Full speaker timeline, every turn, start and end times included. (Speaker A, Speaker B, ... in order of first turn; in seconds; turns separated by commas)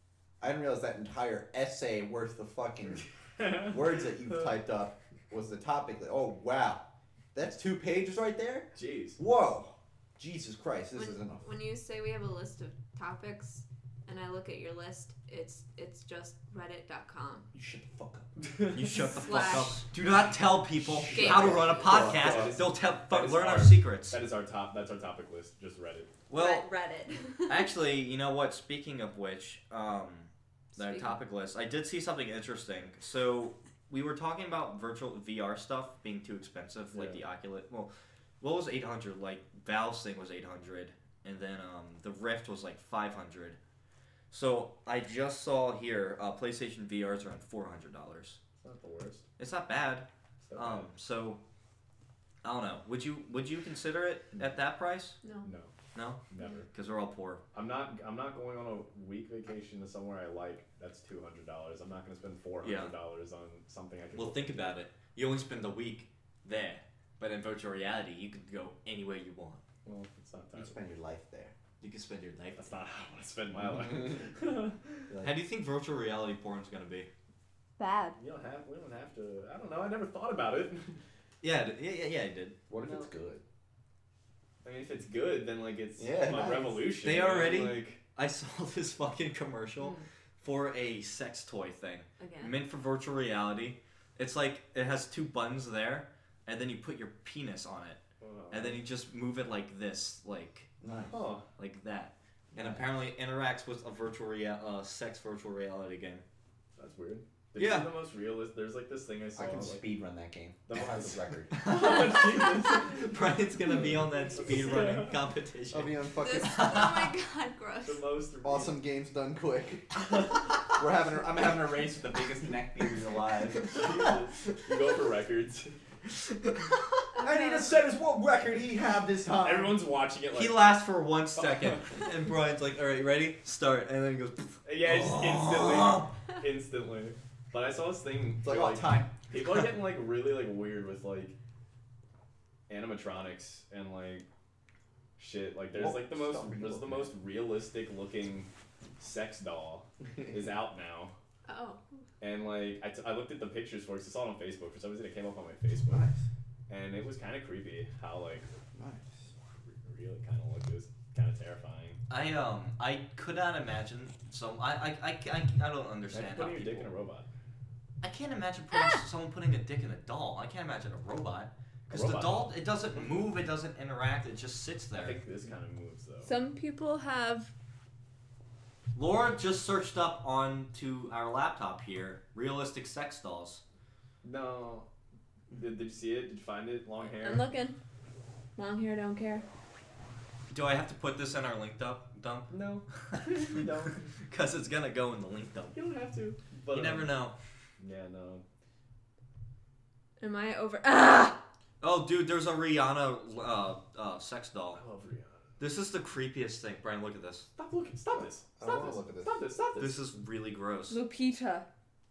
Speaker A: 0.4-11.4, Speaker B: 3.4-3.7, Speaker B: 8.8-9.2, Speaker C: 11.0-17.5, Speaker A: 17.5-18.3, Speaker D: 18.7-24.2, Speaker C: 19.1-19.9, Speaker A: 20.8-22.6, Speaker C: 21.1-21.6, Speaker B: 21.2-26.1, Speaker D: 26.3-26.7, Speaker C: 26.3-27.6, Speaker D: 27.5-43.6, Speaker C: 30.8-31.2, Speaker B: 36.9-37.2, Speaker D: 44.3-48.4, Speaker B: 48.6-49.3, Speaker D: 49.4-51.4, Speaker B: 50.4-50.9, Speaker D: 52.4-55.2, Speaker B: 55.4-55.7, Speaker D: 56.0-57.4, Speaker B: 56.3-56.7, Speaker B: 57.5-64.8, Speaker D: 62.6-62.9, Speaker D: 64.2-69.6, Speaker B: 69.8-70.8, Speaker A: 70.5-71.5, Speaker D: 71.8-72.7, Speaker B: 72.6-75.1, Speaker A: 75.1-75.4, Speaker D: 75.2-77.1, Speaker C: 77.8-78.2, Speaker B: 78.2-81.0, Speaker D: 81.4-82.6, Speaker A: 82.7-83.4, Speaker C: 82.8-83.1, Speaker B: 84.6-88.0, Speaker A: 86.0-87.0, Speaker D: 87.0-98.0, Speaker C: 89.8-90.1, Speaker C: 92.2-92.6, Speaker B: 98.2-98.8, Speaker D: 98.5-100.7, Speaker A: 100.8-101.2, Speaker B: 101.1-101.5, Speaker D: 101.6-106.2, Speaker A: 102.5-102.8, Speaker B: 106.8-109.9, Speaker D: 107.6-108.0, Speaker A: 109.3-111.6, Speaker B: 110.7-115.2, Speaker D: 111.5-117.1, Speaker A: 115.7-116.9, Speaker C: 116.2-118.0, Speaker B: 117.8-118.8, Speaker A: 118.4-120.1, Speaker A: 120.7-124.1, Speaker B: 123.7-125.8, Speaker A: 127.1-129.8, Speaker C: 127.2-127.6, Speaker B: 129.4-130.7, Speaker D: 130.3-136.1, Speaker B: 131.4-131.8, Speaker B: 134.6-141.4, Speaker A: 138.4-139.1, Speaker B: 142.7-144.3, Speaker B: 145.2-151.1, Speaker A: 145.7-147.1, Speaker C: 151.5-151.8, Speaker B: 152.2-156.0, Speaker A: 155.9-156.3, Speaker B: 156.7-158.5, Speaker A: 158.7-159.3, Speaker B: 159.6-162.0, Speaker D: 162.1-166.9, Speaker B: 166.1-167.3, Speaker D: 168.0-175.2, Speaker C: 168.7-169.0, Speaker B: 171.9-173.3, Speaker B: 174.9-176.3, Speaker C: 176.2-177.5, Speaker D: 178.9-183.6, Speaker B: 184.2-184.9, Speaker B: 185.5-187.5, Speaker C: 187.0-187.8, Speaker C: 188.6-189.4, Speaker D: 190.5-193.7, Speaker B: 192.5-194.1, Speaker D: 194.2-195.8, Speaker B: 195.7-197.2, Speaker D: 196.7-197.4, Speaker B: 197.8-198.4, Speaker C: 200.2-201.4, Speaker D: 201.8-204.8, Speaker B: 204.7-205.4, Speaker D: 205.6-207.5, Speaker B: 207.6-210.1, Speaker A: 208.1-209.4, Speaker D: 209.8-211.0, Speaker C: 210.9-211.7